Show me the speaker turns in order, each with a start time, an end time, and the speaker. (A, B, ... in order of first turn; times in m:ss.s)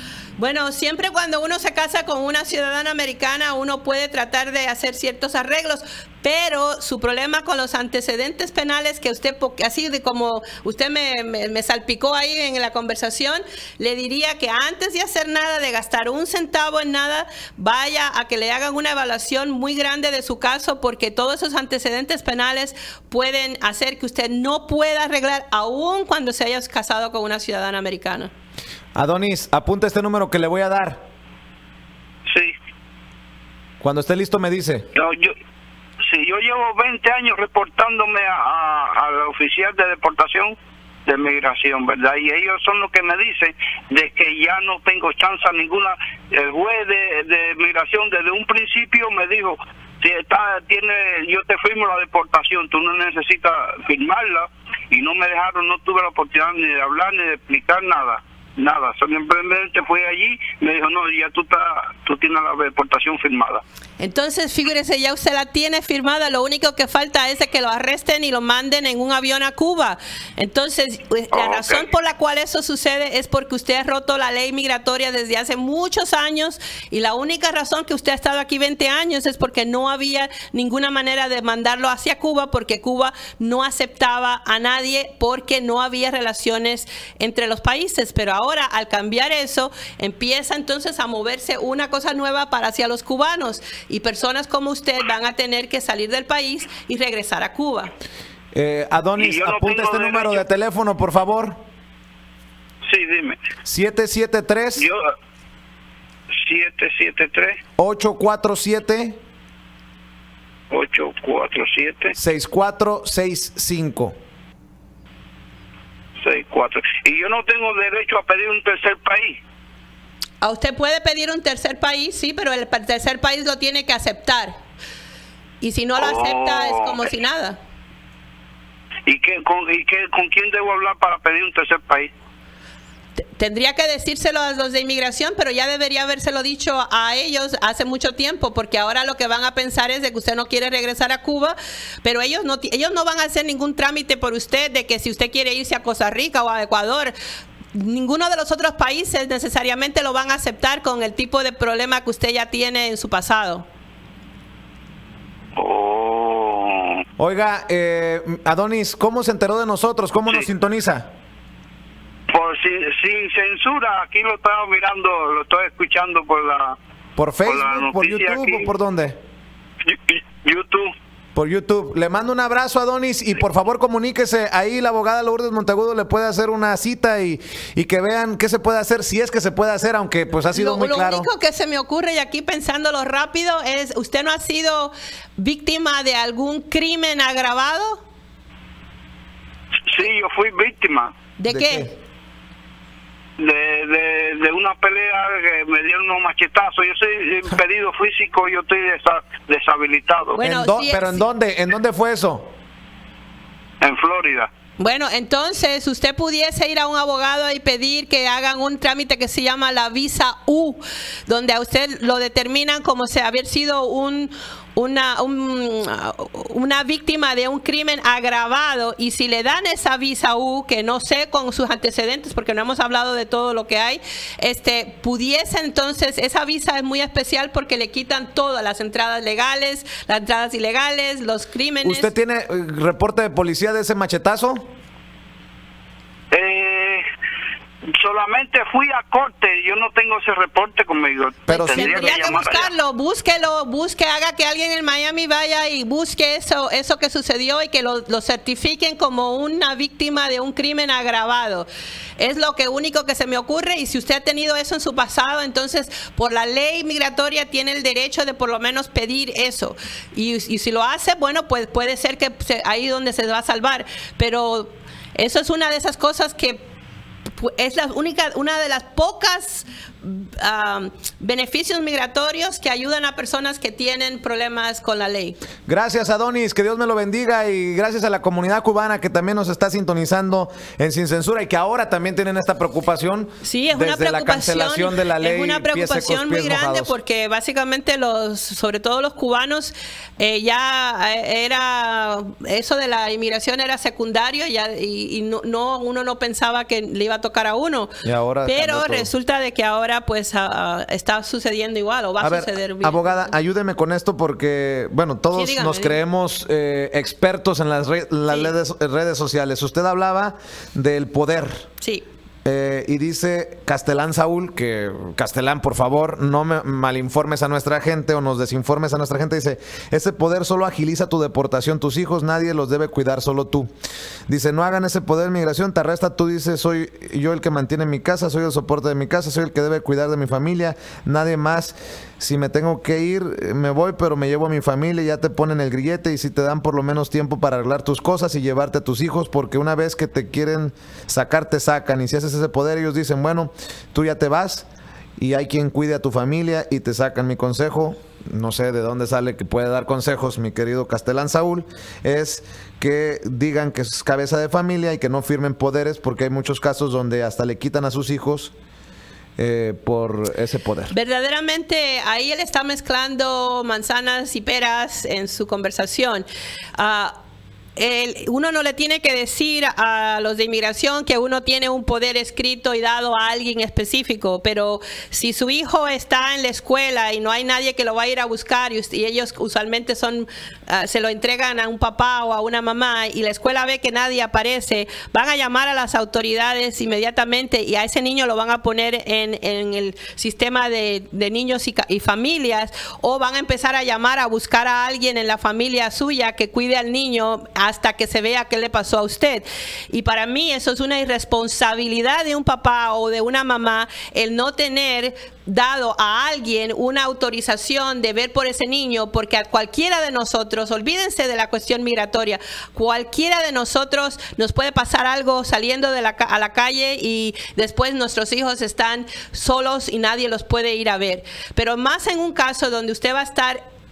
0:00.4-0:28.3 A
0:28.9-0:31.0 B
0:32.3-0:32.5 C
0:33.8-0:34.9 B
0:34.9-0:35.3 C
0:36.1-1:03.6 C
1:04.0-1:37.9 A
1:11.3-1:11.9 C
1:38.5-1:41.6 B
1:39.2-1:40.4 C
1:42.8-1:43.4 C
1:43.6-1:44.8 B
1:44.8-1:45.0 C
1:46.3-1:47.6 C
1:47.8-1:49.2 B
1:50.7-1:52.1 C
1:52.2-1:54.1 B
1:56.2-1:59.4 C
2:00.4-2:04.6 A
2:05.6-2:07.6 A
2:06.0-2:06.9 C
2:09.1-2:12.1 C
2:13.4-2:27.1 A
2:27.7-2:33.6 A
2:35.6-2:37.0 C
2:37.2-2:41.1 B
2:42.3-2:46.8 C
2:47.2-2:49.2 B
2:47.4-2:48.7 C
2:49.8-2:50.9 C
2:51.3-3:01.3 B
3:00.5-3:08.0 A
3:09.9-3:11.1 C
3:11.4-3:11.9 A
3:11.5-3:11.9 B
3:13.4-3:20.4 C
3:20.4-3:21.2 A
3:20.4-3:22.5 B
3:23.8-3:24.5 C
3:24.8-3:52.1 A
3:51.8-3:54.7 B
3:56.3-3:57.0 C
3:58.0-4:02.7 C
4:01.5-4:02.4 B
4:01.7-4:11.7 A
4:12.2-4:26.6 A
4:27.4-4:35.4 A
4:35.6-4:46.9 B
4:43.4-5:03.3 A
4:58.0-4:59.1 B
5:02.2-5:11.7 B
5:05.3-5:06.0 A
5:12.4-5:23.7 B
5:24.3-5:44.6 B
5:45.2-5:58.5 B
5:59.4-6:00.9 B
6:00.9-6:06.2 A
6:06.8-6:07.2 A
6:07.8-7:03.6 A